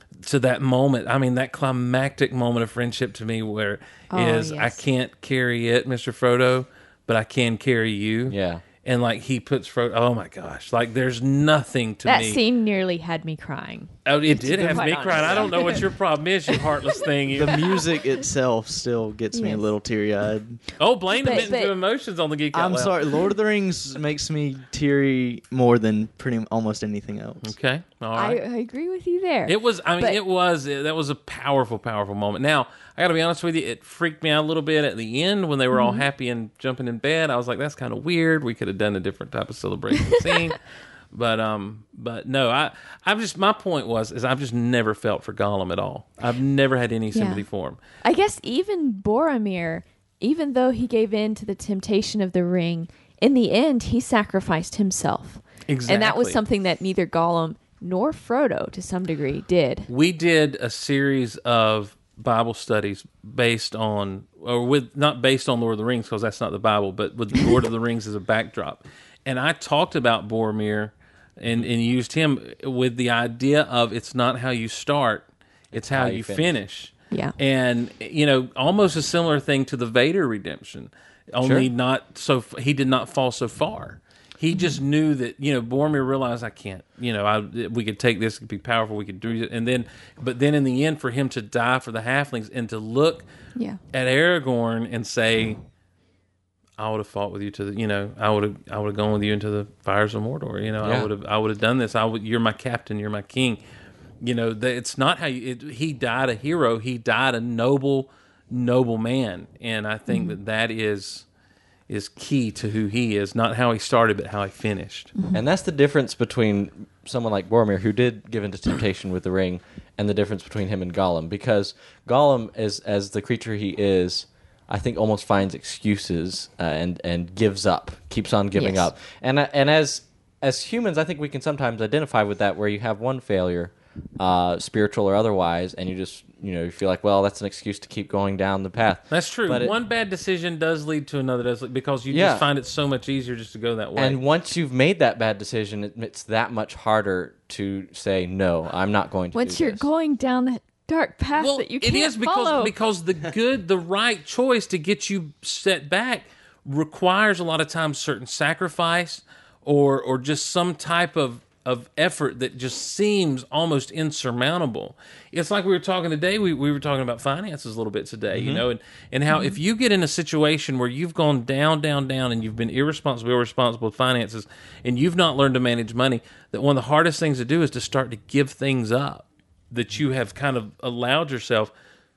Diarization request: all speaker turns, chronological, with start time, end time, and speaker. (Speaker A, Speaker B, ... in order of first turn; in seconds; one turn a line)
Speaker A: 0.2-12.4
Speaker B: 4.1-4.8
Speaker C: 8.3-8.6
Speaker B: 12.1-15.8
Speaker A: 14.1-17.7
Speaker C: 14.8-15.8
Speaker D: 17.4-20.6
Speaker B: 19.3-19.6
Speaker A: 20.8-23.0
Speaker B: 21.2-21.7
Speaker D: 22.5-27.5
Speaker A: 27.4-28.4
Speaker B: 28.1-30.2
Speaker A: 29.5-40.6
Speaker B: 35.7-36.0
Speaker A: 41.1-47.8
Speaker B: 47.1-47.5
Speaker B: 48.0-59.9
Speaker A: 55.7-56.4
Speaker A: 59.9-93.2
Speaker C: 75.7-76.5
Speaker C: 81.4-81.7
Speaker A: 93.9-95.6
Speaker A: 96.8-103.6
Speaker C: 100.8-101.1
Speaker A: 104.2-111.2
Speaker B: 110.1-110.4
Speaker A: 111.9-115.1
Speaker B: 115.2-115.4
Speaker C: 115.3-139.7
Speaker B: 128.6-128.9
Speaker A: 139.1-144.2
Speaker C: 142.1-142.5
Speaker C: 144.0-149.9
Speaker B: 149.3-152.7
Speaker A: 151.4-181.7
Speaker C: 168.3-168.7
Speaker B: 169.3-169.6